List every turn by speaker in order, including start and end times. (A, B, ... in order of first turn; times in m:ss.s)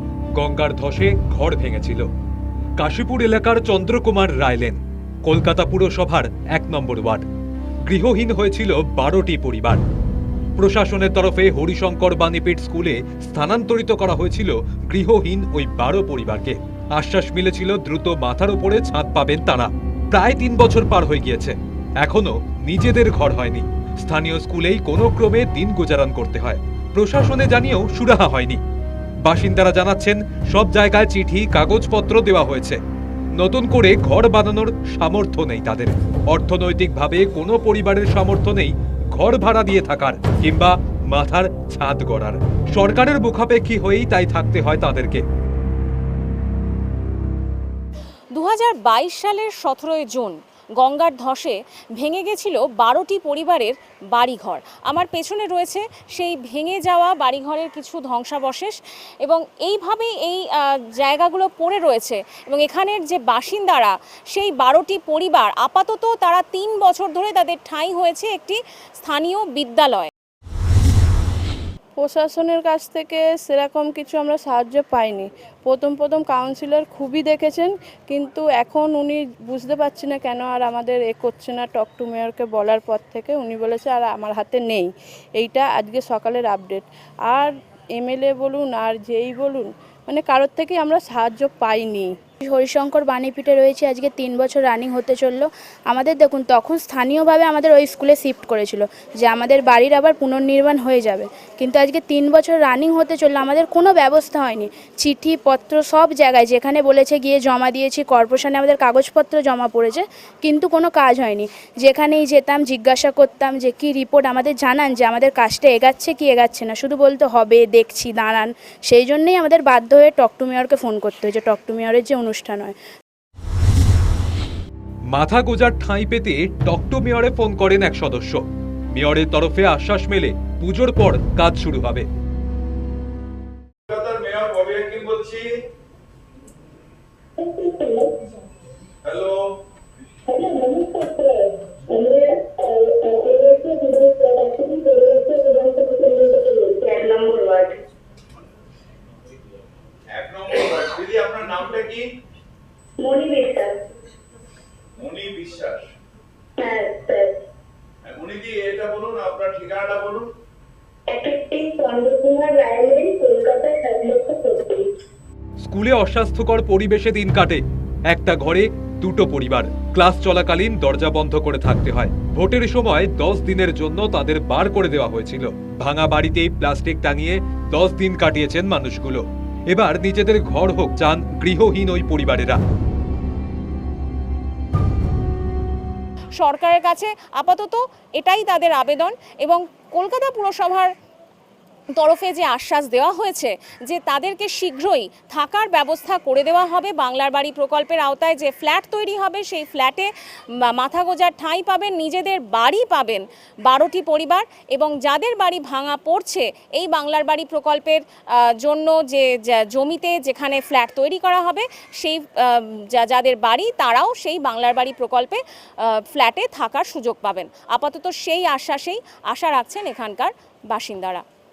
0:00.4-0:02.1 A
0:02.8-0:07.3 A
0:07.8-0:09.8 A
0:10.6-0:28.6 A
0:29.2-0:32.8 A
0:33.4-0:45.2 A
0:48.3-1:10.1 B
1:12.0-1:32.1 C
1:32.4-2:02.8 D
2:05.1-2:12.1 A
2:13.9-2:15.5 E
2:17.4-2:18.1 F
2:19.0-2:19.4 E
2:20.3-2:27.8 F
2:30.1-2:32.0 E
2:33.0-2:33.7 F
2:35.0-2:35.9 E
2:36.6-2:37.4 F
2:38.0-2:40.3 E
2:41.1-2:44.9 F
2:45.6-3:02.6 A
3:06.3-3:10.9 B
3:12.0-3:20.1 B
3:20.6-3:41.2 B